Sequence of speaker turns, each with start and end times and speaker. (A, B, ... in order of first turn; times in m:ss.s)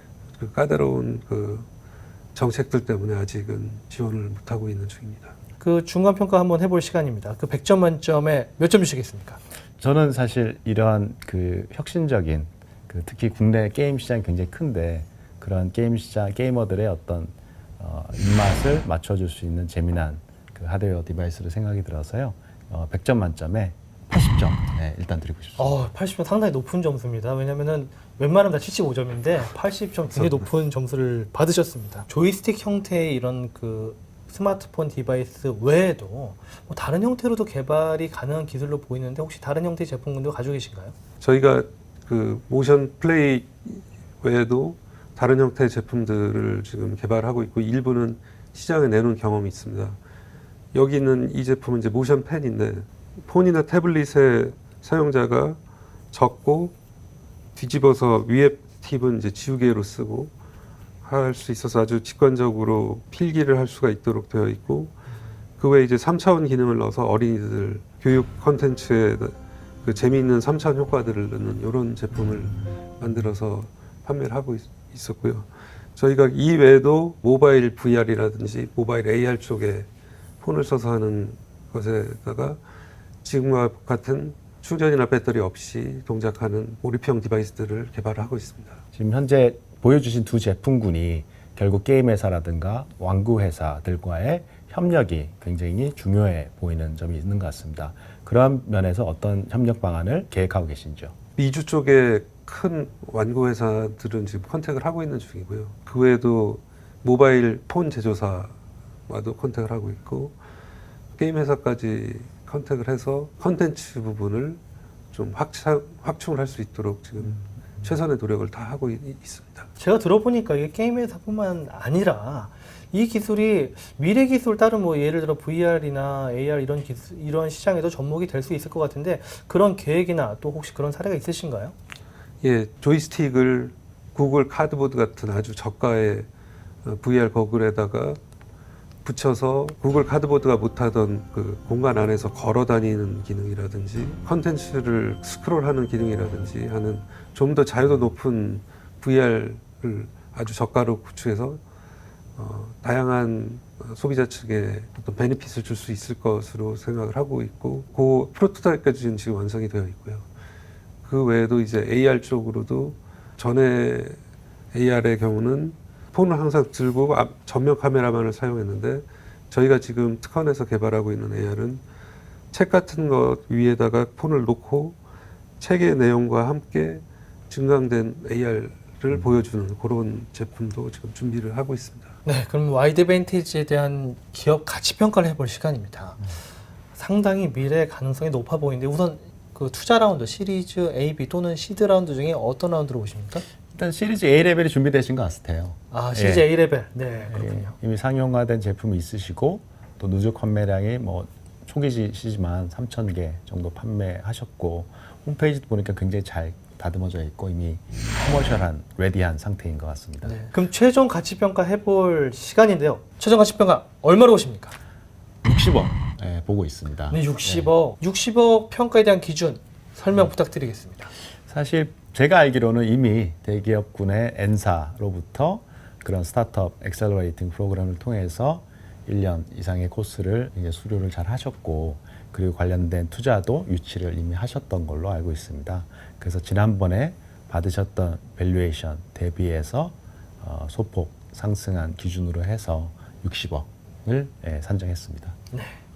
0:00.4-0:01.7 A
0:02.3-0:05.3 A
0:05.6-0:09.4 B
0:09.8-0:25.8 C
0:25.6-0:40.9 B
0:30.2-0:30.4 A
0:41.2-0:50.0 A
0:50.7-0:55.6 A
0:56.1-0:56.7 A
0:57.6-1:00.3 A
1:01.0-1:05.0 A
1:05.6-1:19.9 A
1:20.4-1:22.6 A
1:23.2-1:28.8 A
1:28.9-1:41.1 C
1:41.4-1:48.5 A
1:49.1-1:50.4 A
1:51.2-1:54.6 A
1:55.1-1:59.7 A
1:59.8-2:11.7 B
2:12.4-2:16.3 A
2:16.8-2:18.2 A
2:19.0-2:31.6 A
2:32.4-2:40.2 A
2:41.0-2:44.2 A
2:44.7-2:51.8 A
2:52.5-2:55.0 A
2:55.6-3:02.1 A
3:02.2-3:06.3 B
3:06.9-3:13.4 B
3:13.7-3:16.5 C
3:15.9-3:17.7 B
3:17.3-3:30.4 C
3:30.2-3:34.8 B
3:35.4-3:37.7 C
3:37.1-3:41.1 B
3:41.5-4:05.4 C
4:05.5-4:05.8 B